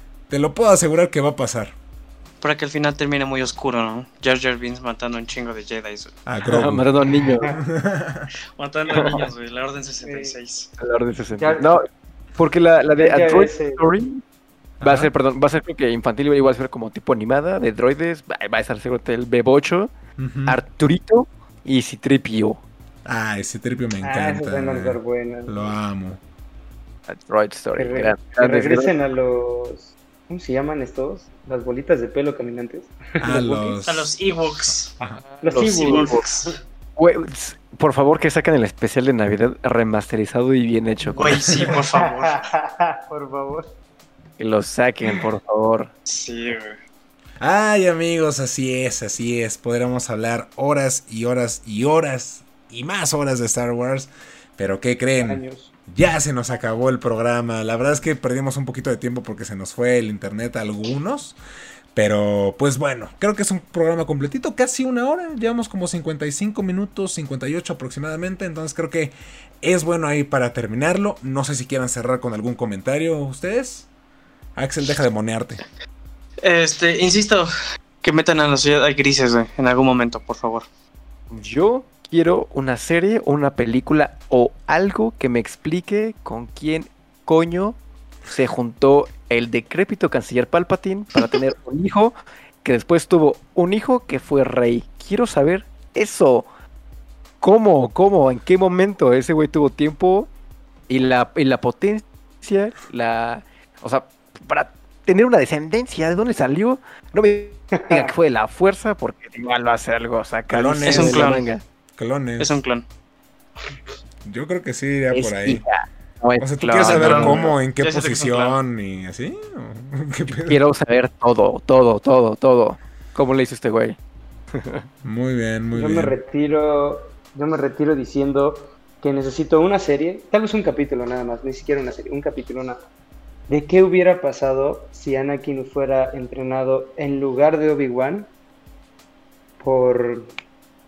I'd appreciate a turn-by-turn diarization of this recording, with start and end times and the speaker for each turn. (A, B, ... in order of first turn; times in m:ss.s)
0:00.3-0:01.7 A
0:02.4-0:06.1 B
0:06.3-0:06.9 A
0:06.4-0:07.5 C
0:07.5-0:08.3 A
0:08.6-0:10.7 B
0:08.9-0:09.3 C
0:10.0-0:10.4 D
0:10.8-0:11.8 C
0:11.4-0:11.7 D
0:12.4-0:14.2 C
0:13.0-0:13.8 D
0:14.8-0:15.1 A
0:14.8-0:19.9 C
0:20.2-0:20.6 A
0:20.5-0:22.6 C
0:23.1-0:26.2 A
0:24.0-0:25.8 D
0:27.1-0:28.9 C
0:27.8-0:33.8 D
0:33.2-0:34.1 A
0:33.9-0:34.9 B
0:35.3-0:36.3 C
0:35.4-0:36.5 D
0:35.6-0:36.6 B
0:37.0-0:41.7 C
0:41.2-0:42.4 B
0:41.6-0:43.7 D
0:44.4-0:45.9 C
0:46.1-0:46.8 B
0:47.4-1:01.4 A
0:55.2-0:55.7 D
1:02.0-1:13.9 A
1:14.6-1:15.6 A
1:16.4-1:17.5 B
1:18.0-1:20.7 B
1:21.3-1:36.5 C
1:37.4-1:40.3 C
1:40.9-1:51.6 C
1:47.8-1:48.1 D
1:50.5-1:51.3 A
1:50.9-1:51.5 B
1:52.0-1:52.6 A
1:52.4-1:52.8 B
1:54.3-1:55.6 A
1:55.1-1:57.5 C
1:56.4-2:00.6 A
1:56.8-1:58.6 B
2:00.5-2:04.0 C
2:04.5-2:04.9 C
2:05.0-2:06.2 A
2:05.7-2:12.8 D
2:13.5-2:18.3 D
2:19.6-2:20.3 D